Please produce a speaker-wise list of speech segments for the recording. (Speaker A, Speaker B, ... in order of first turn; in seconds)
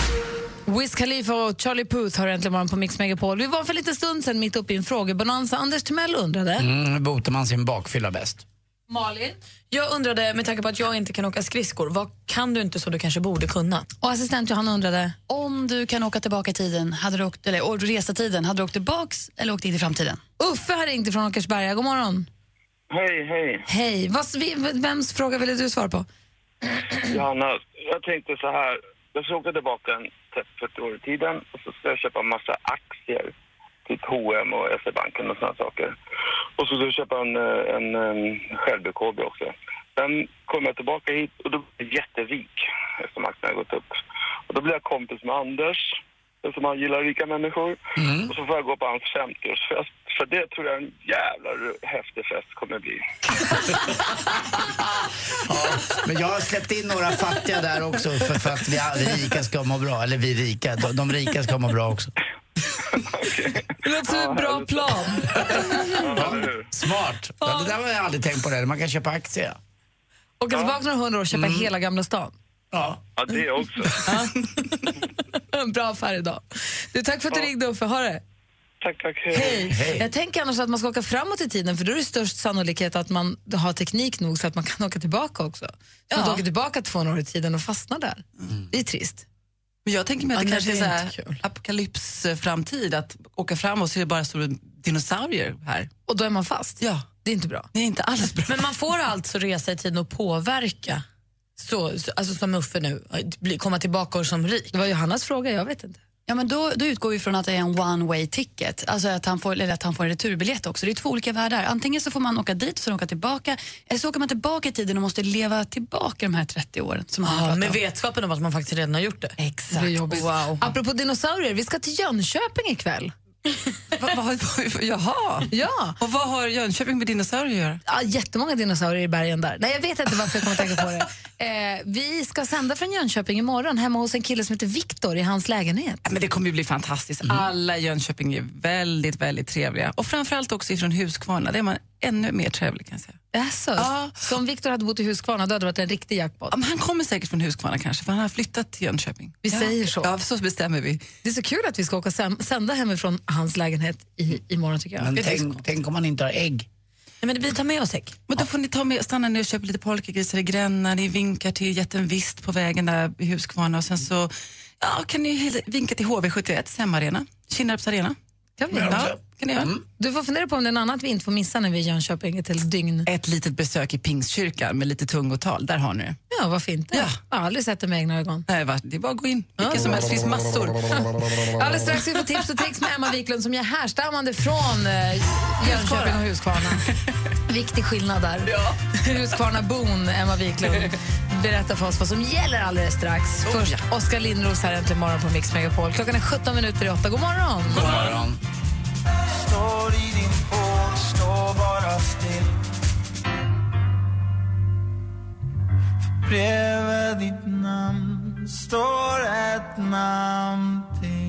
Speaker A: 0.7-6.7, 8.9-9.4, 14.0-15.2, 20.4-22.3, 23.7-26.1, 63.8-66.1, 67.4-67.7, 70.4-72.3, 75.5-78.2, 79.3-89.2, 96.1-97.7, 104.7-106.0, 119.7-123.1, 125.5-126.0, 127.8-136.0, 143.3-146.6, 149.4-150.1, 151.2-155.2, 168.6-173.1, 176.3-178.4, 179.6-180.2, 181.5-186.8, 187.5-198.1
Speaker B: 6.6-8.4, 48.0-48.3, 55.4-62.1, 66.1-69.6, 71.3-71.7, 72.7-73.0, 79.7-80.1, 155.0-156.7, 168.7-169.8, 197.7-198.4
Speaker C: 9.7-13.9, 90.3-91.4, 98.5-101.0, 101.6-104.7, 117.2-119.3, 157.2-158.2
Speaker D: 15.3-20.2, 106.3-117.8, 119.4-120.6
Speaker E: 22.9-23.6, 27.1-33.3, 33.9-35.9, 36.6-43.9, 44.5-53.0, 63.1-65.4, 66.0-66.6, 73.2-74.0, 78.8-79.6
Speaker F: 74.1-74.6, 86.1-86.4, 89.8-95.9, 96.8-97.1, 97.7-98.7, 124.0-127.8, 130.3-130.8, 136.0-143.2, 143.8-144.3, 146.5-151.0, 155.2-155.5, 158.3-168.2, 168.7-169.7, 173.1-176.2, 176.9-177.2, 178.5-181.2, 185.6-187.0, 188.4-188.8, 190.6-190.9, 193.4-193.8
Speaker G: 199.5-202.4, 206.7-207.4, 208.4-208.6